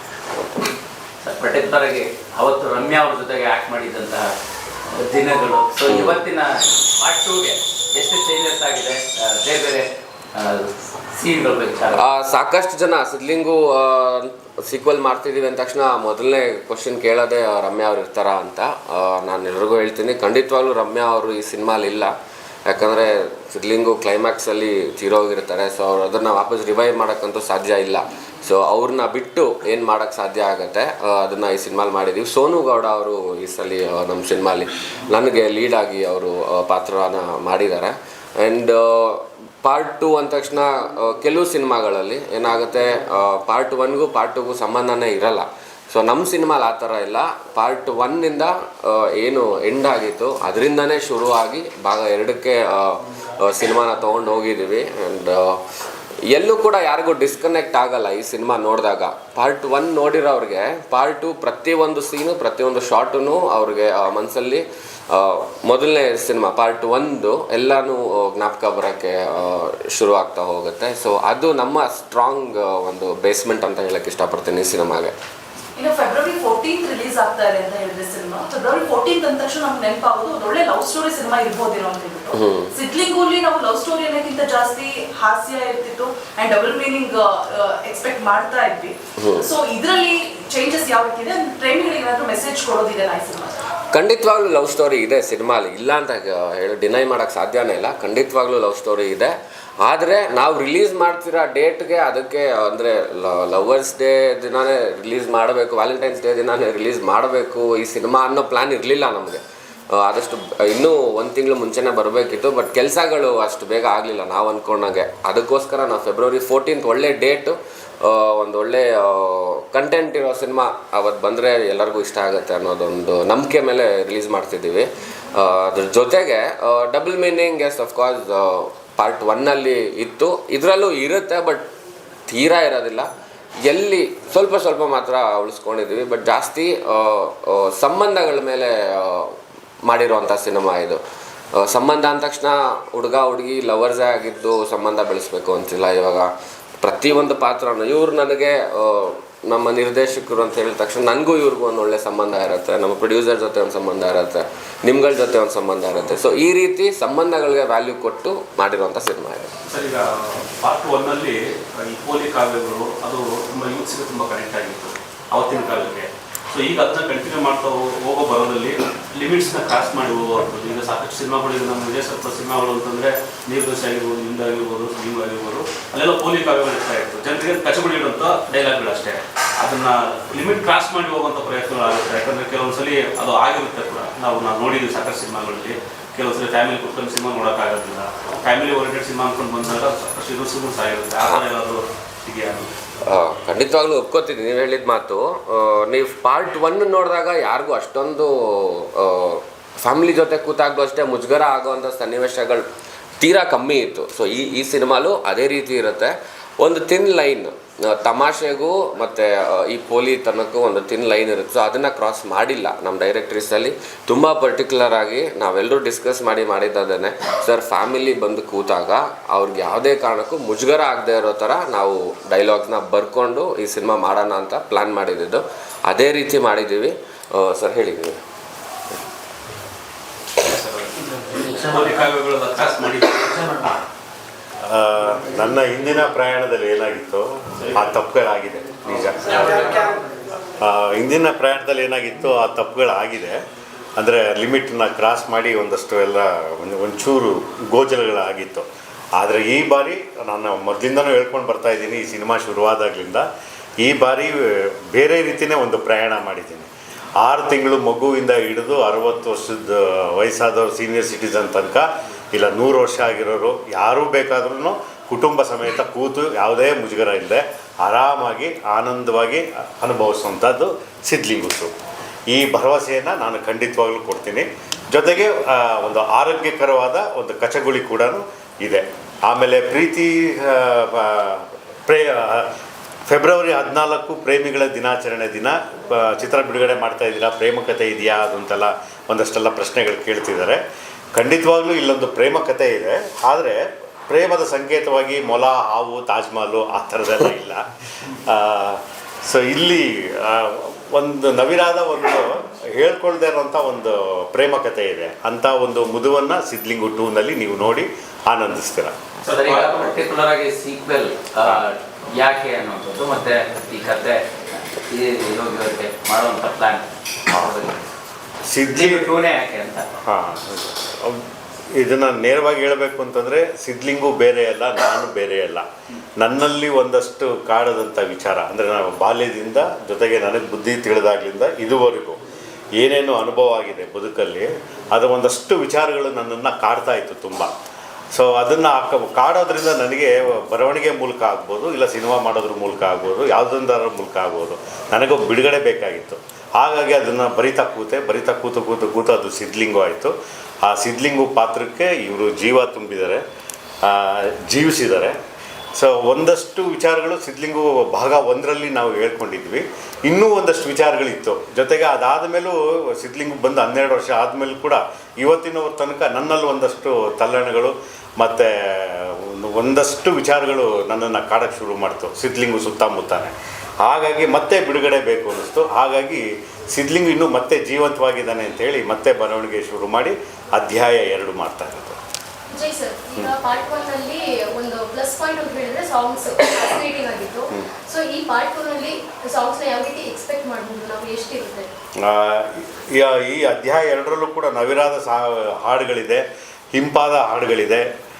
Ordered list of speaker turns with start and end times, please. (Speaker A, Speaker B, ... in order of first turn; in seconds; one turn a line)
Speaker A: 1.2-4.3
Speaker A: 5.0-6.5
Speaker B: 5.9-6.2
Speaker A: 7.0-12.0
Speaker B: 11.9-22.1
Speaker B: 22.7-55.6
Speaker B: 56.3-75.1
Speaker C: 75.8-93.6
Speaker B: 82.3-82.7
Speaker B: 93.9-109.4
Speaker B: 109.9-131.7
Speaker B: 132.3-133.1
Speaker B: 133.7-141.0
Speaker B: 141.6-146.3
Speaker B: 146.8-159.5
Speaker D: 159.7-192.7
Speaker B: 193.1-202.7
Speaker B: 203.2-228.2
Speaker D: 230.4-233.8
Speaker E: 234.6-239.8
Speaker D: 239.3-239.7
Speaker E: 240.6-243.4
Speaker E: 244.0-253.3
Speaker E: 253.8-271.7
Speaker E: 272.3-282.5
Speaker E: 283.1-290.6
Speaker E: 291.1-309.0
Speaker A: 309.2-317.8
Speaker D: 309.3-309.9
Speaker E: 318.5-319.2
Speaker A: 318.7-319.9
Speaker E: 320.0-325.6
Speaker E: 326.2-332.2
Speaker E: 332.8-337.5
Speaker E: 338.1-353.2
Speaker E: 353.8-355.2
Speaker E: 355.8-382.0
Speaker F: 382.5-391.7
Speaker E: 392.0-397.9